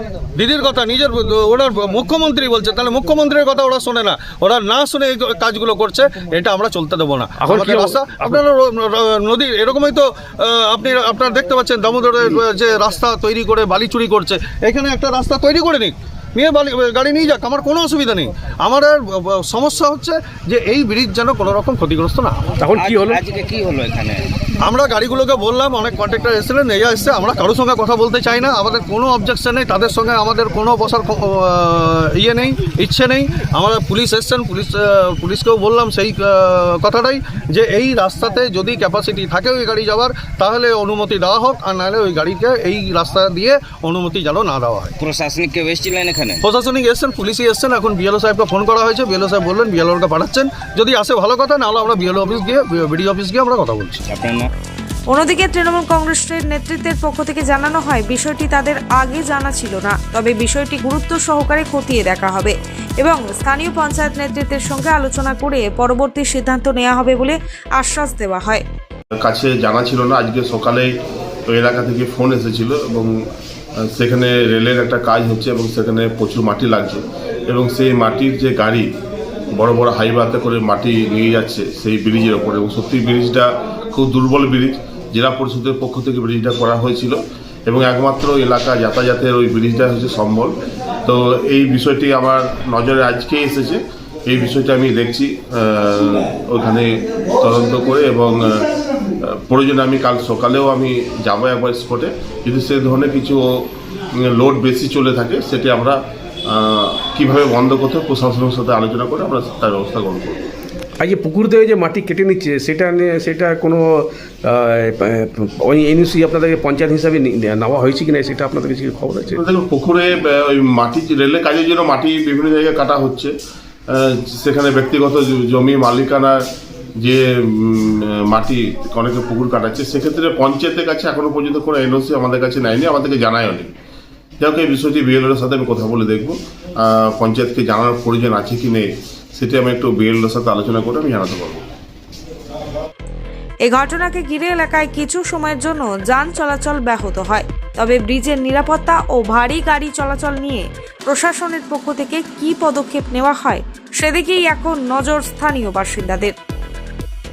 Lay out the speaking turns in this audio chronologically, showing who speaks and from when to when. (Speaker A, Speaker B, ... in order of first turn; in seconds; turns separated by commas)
Speaker A: 0.3-22.6, Speaker B: 7.4-8.4, Speaker B: 22.6-23.2, Speaker C: 22.8-24.3, Speaker A: 24.6-45.0, Speaker C: 45.0-46.4, Speaker A: 46.4-54.0, Speaker C: 54.1-54.5, Speaker D: 55.1-68.6, Speaker E: 69.2-70.9, Speaker E: 71.5-73.2, Speaker E: 73.8-78.9, Speaker E: 79.5-98.7, Speaker E: 99.2-103.7, Speaker E: 104.2-110.4, Speaker B: 111.0-119.4, Speaker E: 119.3-123.3, Speaker E: 123.9-126.4, Speaker E: 127.0-133.7, Speaker E: 134.4-141.7, Speaker D: 143.7-156.3